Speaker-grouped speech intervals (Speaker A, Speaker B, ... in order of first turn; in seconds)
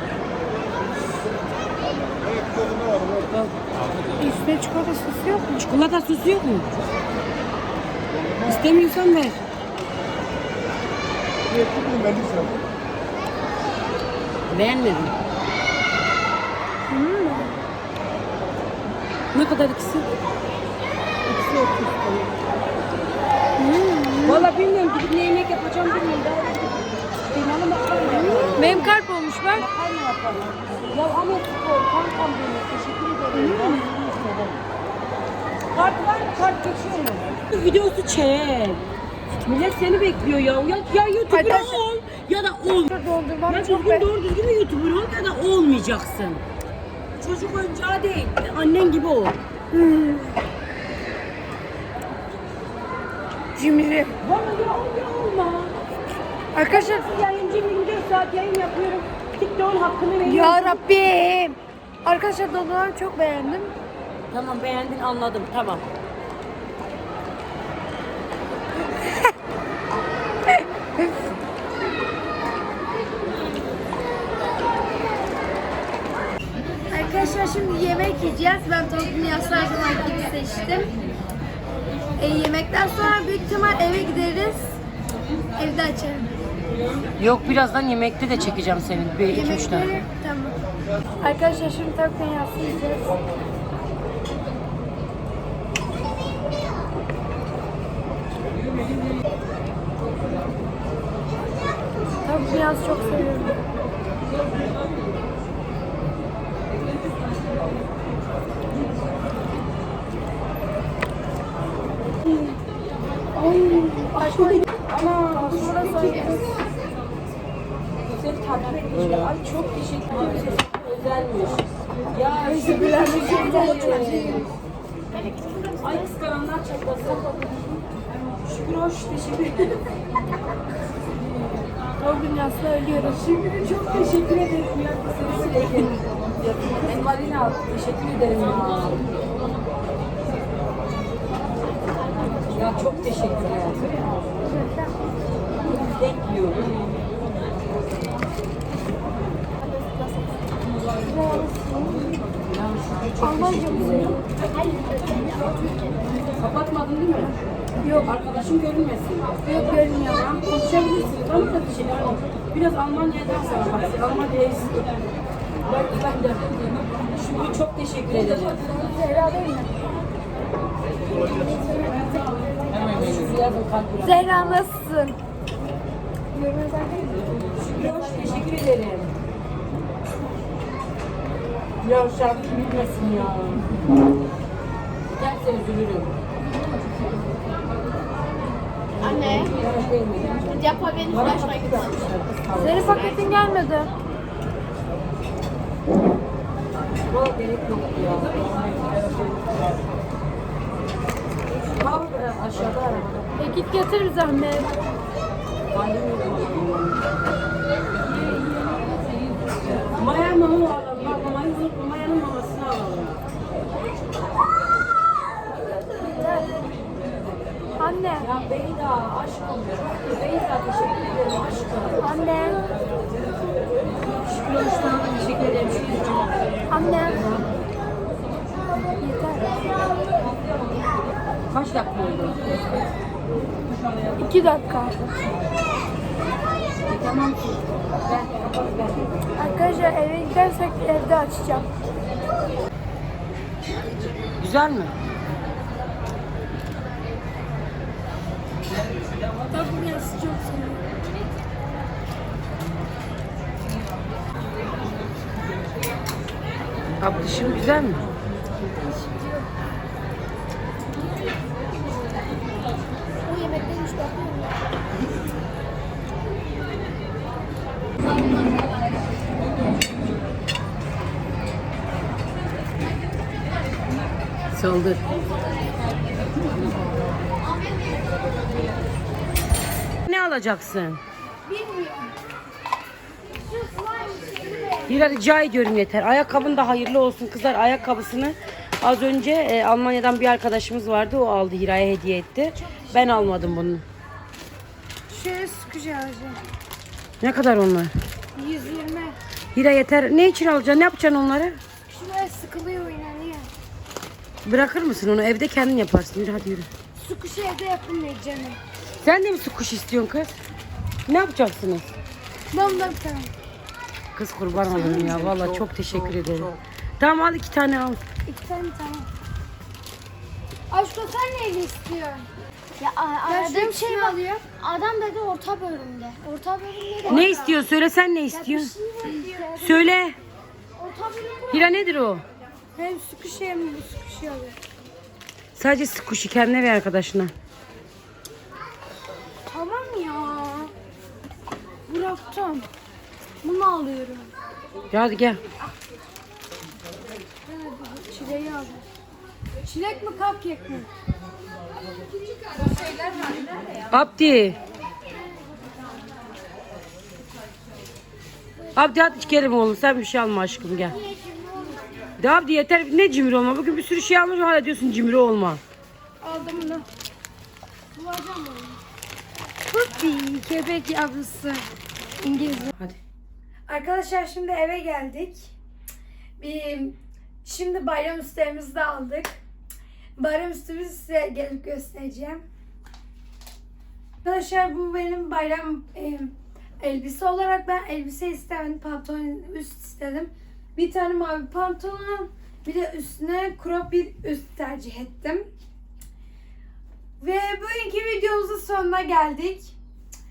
Speaker A: 3.2-3.5, 5.5-6.7, 8.4-9.4, 14.5-15.2, 19.3-20.1, 21.2-22.4, 24.2-28.9, 29.5-33.9, 35.7-38.8, 39.4-43.0, 43.5-46.4, 47.2-49.4, 54.2-55.8, 56.7-60.8, 64.3-65.9, 87.2-90.0, 114.2-116.5, 118.0-124.5, 125.8-127.8, 128.4-129.9, 133.0-136.0, 136.7-139.0, 142.5-144.1, 145.7-146.8, 152.3-154.2, 156.4-157.4, 158.0-164.9, 165.7-168.7, 172.7-174.7, 177.5-179.1, 181.8-183.7, 185.1-186.1, 189.0-193.1, 197.1-199.4, 201.7-203.2, 205.7-207.1, 209.9-213.2, 218.2-222.2, 224.0-226.3, 227.0-227.5, 231.5-232.8, 236.9-239.8, 244.4-244.9, 257.0-258.1, 274.5-275.1, 280.1-281.0, 284.9-293.8, 297.2-297.9, 299.6-301.6, 304.4-306.7, 309.0-310.3, 311.1-311.9, 314.1-318.0, 327.1-328.7, 329.6-330.1, 331.5-332.2, 335.6-337.3, 344.9-345.4, 353.9-354.6, 358.8-361.0, 362.2-365.6
Speaker B: 4.2-5.6, 16.9-17.6, 23.6-24.5, 28.6-29.7, 33.3-33.9, 41.3-41.8, 42.9-44.1, 49.7-50.4, 53.5-54.2, 56.5-57.1, 60.2-63.7, 70.5-71.3, 76.9-80.9, 82.2-84.8, 85.6-86.3, 89.2-90.6, 91.2-93.2, 102.2-103.6, 112.2-112.6, 113.3-114.7, 115.3-116.5, 122.4-124.5, 132.0-133.2, 144.4-144.9, 151.0-152.1, 153.2-154.3, 157.8-158.2, 159.4-160.3, 168.5-169.8, 171.4-172.3, 174.0-175.2, 176.3-177.3, 192.5-193.9, 203.4-204.8, 217.8-218.3, 222.0-222.6, 226.7-227.3, 228.8-229.6, 234.2-235.0, 239.3-241.7, 249.4-250.8, 281.5-282.1, 283.5-285.1, 292.6-293.4, 295.1-296.4, 298.4-299.2, 301.9-303.5, 307.0-308.6, 312.5-313.3, 314.7-315.1, 318.3-319.1, 320.7-322.3, 323.3-324.4, 326.2-327.5, 328.4-329.7, 332.8-334.6, 339.5-340.7, 341.9-342.7, 343.4-344.3, 347.5-348.8, 349.6-350.9, 352.6-353.5, 361.2-361.6, 366.2-366.9, 367.9-368.8, 369.6-371.6, 372.2-372.8, 373.7-375.5, 376.4-379.4, 380.2-382.4, 384.2-395.5, 397.2-399.7
Speaker C: 125.4-125.8, 154.5-156.2, 189.0-189.6, 190.4-192.0, 192.8-193.3, 263.2-264.6, 277.4-278.7, 284.2-284.6, 322.8-326.2, 327.0-327.3, 328.4-329.8, 330.8-331.8